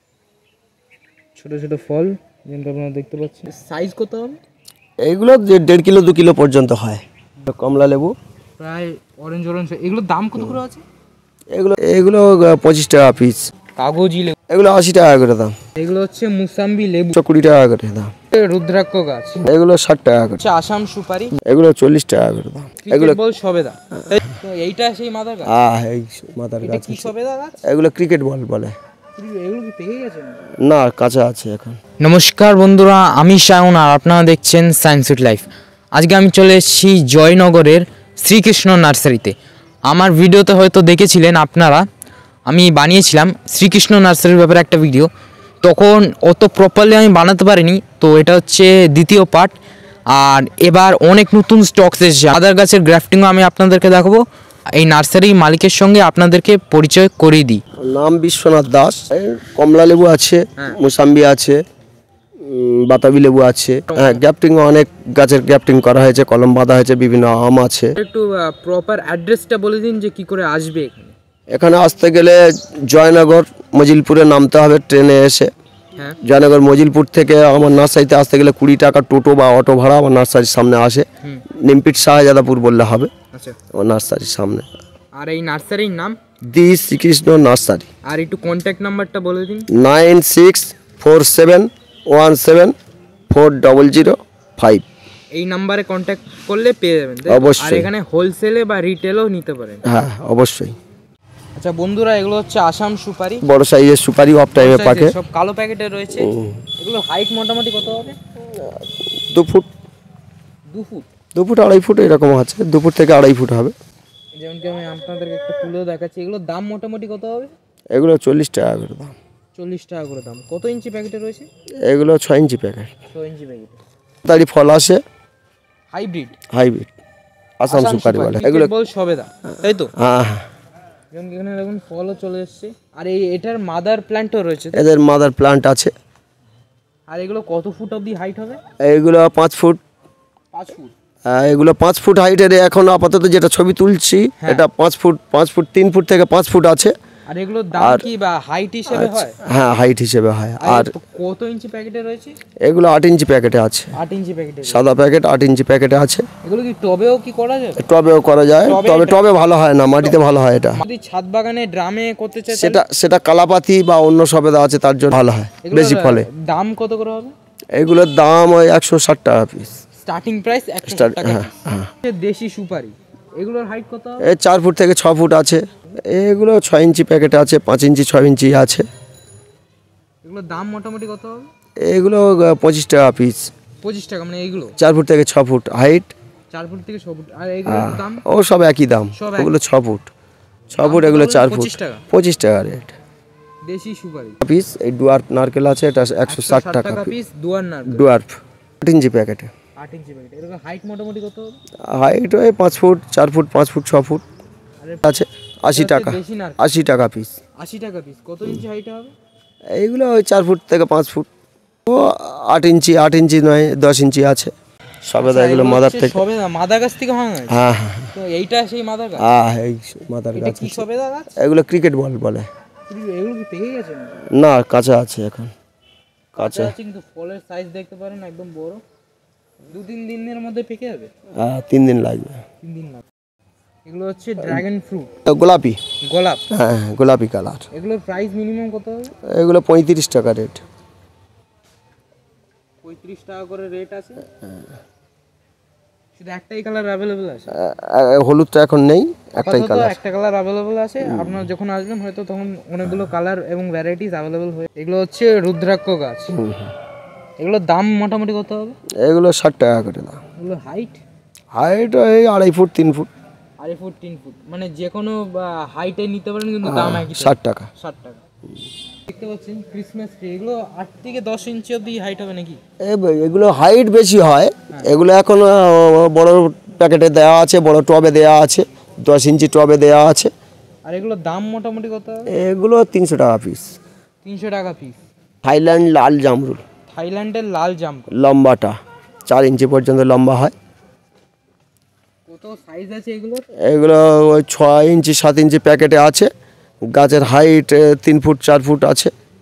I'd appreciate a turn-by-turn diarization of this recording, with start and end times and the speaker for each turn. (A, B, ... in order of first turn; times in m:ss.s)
0:01.4-0:04.4 A
0:05.0-0:08.2 B
0:08.6-0:10.8 A
0:11.5-0:13.5 B
0:13.8-0:14.4 A
0:14.5-0:15.6 B
0:15.8-0:17.2 A
0:17.1-0:18.1 B
0:18.3-0:19.4 A
0:19.4-0:20.4 B
0:20.4-0:21.4 A
0:21.4-0:23.2 B
0:22.8-0:25.5 A
0:25.4-0:27.1 B
0:26.6-0:27.6 A
0:27.6-0:28.8 B
0:29.2-0:30.4 A
0:30.6-0:31.8 B
0:32.0-0:41.9 A
0:42.5-0:45.1 A
0:45.6-0:57.6 A
0:57.8-1:01.6 B
1:02.4-1:08.0 B
1:03.9-1:04.2 A
1:08.0-1:11.2 A
1:11.5-1:15.5 B
1:16.2-1:23.1 B
1:23.7-1:24.7 B
1:25.1-1:26.2 A
1:26.4-1:27.9 B
1:28.0-1:29.7 A
1:29.7-1:32.8 B
1:33.3-1:34.8 B
1:35.3-1:39.8 A
1:37.3-1:37.9 B
1:39.8-1:40.8 B
1:41.6-1:43.5 A
1:43.4-1:45.2 B
1:44.5-1:48.2 A
1:46.2-1:46.6 B
1:48.4-1:49.7 B
1:50.7-1:51.1 A
1:51.4-1:53.8 B
1:54.4-1:57.6 A
1:57.9-1:59.2 B
1:59.6-2:01.5 A
2:01.8-2:02.9 B
2:03.1-2:03.8 A
2:04.2-2:05.0 B
2:05.9-2:06.4 A
2:06.5-2:06.9 B
2:07.6-2:08.7 B
2:07.7-2:09.9 A
2:10.0-2:10.5 B
2:11.1-2:14.8 A
2:14.7-2:15.9 B
2:17.1-2:18.6 A
2:18.8-2:19.8 B
2:20.5-2:20.9 A
2:21.2-2:27.0 B
2:24.4-2:24.6 A
2:27.3-2:29.4 A
2:27.8-2:28.1 B
2:28.9-2:30.9 B
2:30.6-2:32.4 A
2:32.6-2:34.0 B
2:34.0-2:34.8 A
2:34.6-2:36.3 B
2:36.4-2:37.8 A
2:37.8-2:40.8 B
2:38.6-2:39.3 A
2:40.8-2:42.8 A
2:42.5-2:46.3 B
2:45.6-2:47.4 A
2:47.7-2:49.8 B
2:50.0-2:54.3 A
2:50.9-2:51.9 B
2:54.2-2:58.9 B
3:00.2-3:01.5 A
3:01.8-3:03.5 B
3:03.8-3:04.8 A
3:04.8-3:06.1 B
3:06.5-3:08.2 A
3:07.7-3:10.1 B
3:09.1-3:09.5 A
3:10.7-3:13.0 B
3:10.8-3:12.0 A
3:13.6-3:14.4 A
3:14.4-3:17.2 B
3:16.3-3:18.1 A
3:17.9-3:19.5 B
3:19.8-3:21.6 A
3:21.8-3:24.2 B
3:24.8-3:25.1 A
3:25.0-3:27.4 B
3:25.7-3:26.7 A
3:27.6-3:29.2 A
3:29.7-3:31.3 B
3:31.9-3:34.5 B
3:35.0-3:36.2 B
3:35.2-3:37.6 A
3:37.5-3:38.1 B
3:38.1-3:39.3 A
3:39.2-3:42.5 B
3:40.3-3:41.3 A
3:42.9-3:44.2 A
3:44.2-3:45.5 B
3:46.4-3:46.7 B
3:46.4-3:48.8 A
3:49.7-3:51.1 A
3:51.4-3:52.4 B
3:52.6-3:53.0 A
3:53.9-3:55.1 A
3:55.2-3:55.8 B
3:56.0-3:56.4 A
3:56.5-3:57.6 B
3:57.7-3:59.1 A
3:59.2-4:00.6 B
4:02.8-4:04.3 A
4:06.2-4:07.6 A
4:07.5-4:10.0 B
4:09.4-4:16.4 A
4:11.0-4:11.4 B
4:16.3-4:16.7 B
4:17.4-4:18.8 A
4:19.0-4:20.2 B
4:20.4-4:21.0 A
4:21.5-4:23.1 B
4:23.6-4:28.2 A
4:26.6-4:27.7 B
4:29.1-4:32.6 A
4:32.8-4:40.3 B
4:40.8-4:42.3 A
4:42.3-4:43.8 B
4:44.2-4:45.0 A
4:45.4-4:46.6 B
4:46.9-4:48.1 A
4:48.1-4:50.5 B
4:52.3-4:53.5 A
4:53.6-4:56.3 B
4:56.9-4:59.1 B